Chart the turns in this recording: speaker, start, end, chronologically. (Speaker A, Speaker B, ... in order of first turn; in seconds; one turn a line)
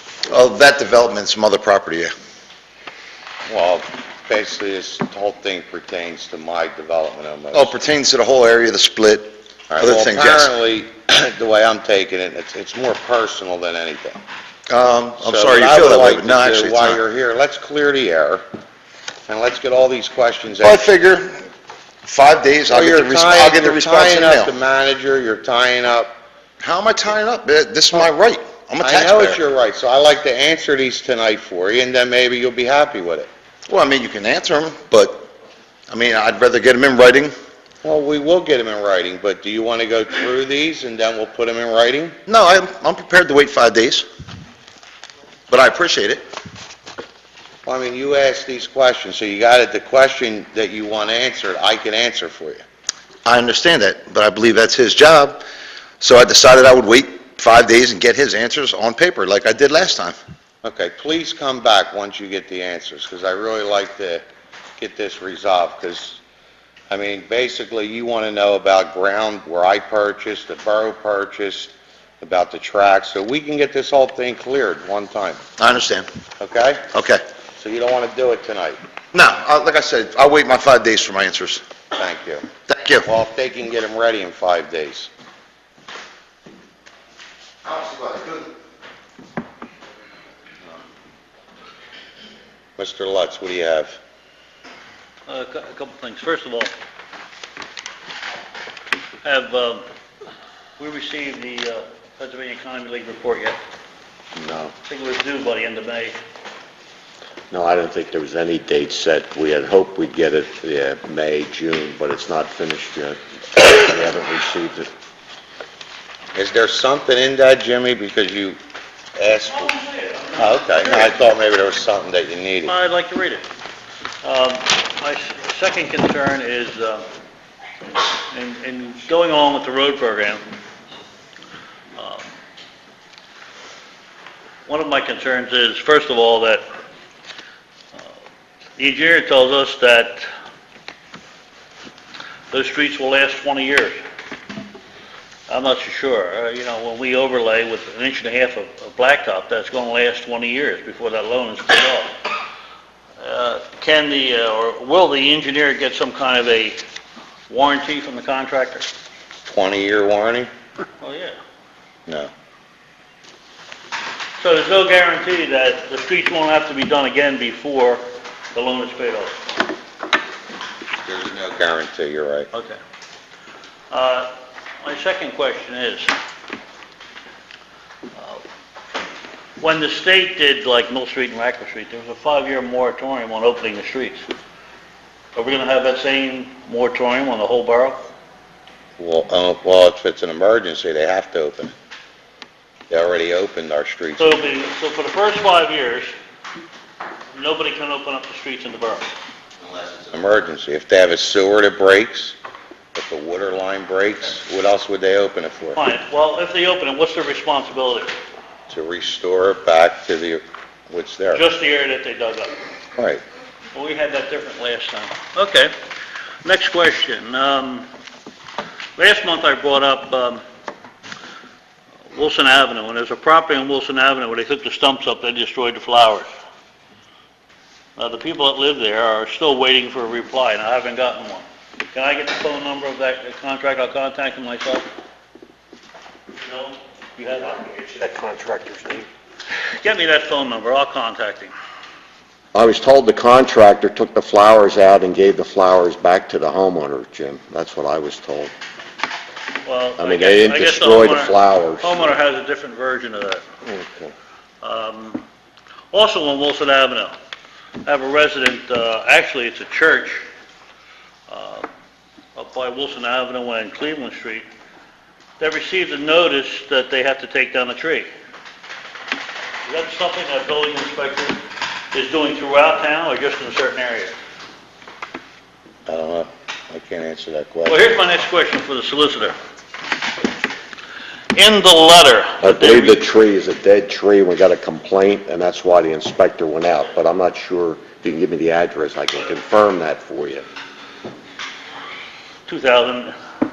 Speaker A: 0.3-2.1
Speaker B: 3.5-7.7
Speaker A: 7.5-10.5
Speaker B: 9.7-14.2
Speaker A: 14.7-17.0
Speaker B: 15.2-18.4
Speaker B: 19.2-20.9
Speaker A: 20.6-21.5
Speaker A: 22.1-24.5
Speaker B: 22.7-26.1
Speaker A: 26.6-29.4
Speaker B: 28.8-33.3
Speaker A: 33.7-35.3
Speaker A: 35.9-37.3
Speaker B: 37.8-42.2
Speaker A: 42.2-44.0
Speaker A: 45.5-46.2
Speaker B: 47.6-52.6
Speaker A: 53.2-55.4
Speaker A: 56.0-60.2
Speaker B: 60.6-64.2
Speaker B: 64.8-66.2
Speaker B: 66.9-75.4
Speaker A: 75.6-76.0
Speaker B: 76.4-76.9
Speaker A: 76.9-77.2
Speaker B: 77.6-78.8
Speaker A: 79.1-81.6
Speaker B: 81.9-82.5
Speaker A: 82.7-83.1
Speaker B: 83.0-85.1
Speaker A: 87.6-88.5
Speaker B: 92.8-94.0
Speaker C: 95.3-96.7
Speaker C: 99.2-99.8
Speaker C: 100.8-103.6
Speaker D: 104.4-104.8
Speaker C: 104.8-106.2
Speaker D: 107.5-114.9
Speaker B: 116.3-118.6
Speaker B: 119.2-122.8
Speaker C: 119.5-121.2
Speaker C: 122.7-123.5
Speaker C: 124.2-127.0
Speaker C: 128.3-130.4
Speaker C: 132.0-132.2
Speaker C: 134.7-136.7
Speaker C: 138.8-140.3
Speaker C: 142.5-144.0
Speaker C: 145.5-152.1
Speaker C: 153.2-156.8
Speaker C: 157.5-158.9
Speaker B: 159.5-160.5
Speaker C: 161.0-161.4
Speaker C: 164.4-169.4
Speaker B: 171.0-172.5
Speaker C: 172.5-172.8
Speaker C: 173.9-176.1
Speaker C: 178.2-178.4
Speaker C: 179.6-184.2
Speaker C: 185.3-188.0
Speaker B: 189.0-191.7
Speaker B: 192.9-194.4
Speaker C: 194.2-196.1
Speaker C: 197.3-199.1
Speaker B: 199.7-202.4
Speaker B: 202.9-205.8
Speaker C: 205.8-208.2
Speaker B: 208.7-211.4
Speaker C: 211.3-212.6
Speaker B: 213.0-213.2
Speaker C: 213.7-215.7
Speaker C: 216.4-217.9
Speaker C: 219.0-220.4
Speaker C: 222.1-226.3
Speaker C: 228.0-234.9
Speaker C: 236.3-238.0
Speaker D: 238.0-239.1
Speaker C: 239.7-241.5
Speaker D: 242.5-248.5
Speaker C: 249.7-253.4
Speaker D: 250.0-252.2
Speaker D: 253.7-254.1
Speaker C: 254.6-255.2
Speaker C: 255.9-257.2
Speaker C: 257.8-260.2
Speaker C: 261.3-261.7
Speaker C: 262.4-264.5
Speaker C: 265.4-268.1
Speaker C: 269.6-271.4
Speaker C: 271.9-274.1
Speaker B: 275.9-277.8
Speaker C: 277.7-279.4
Speaker C: 281.3-283.0
Speaker D: 282.4-290.5
Speaker C: 292.5-293.1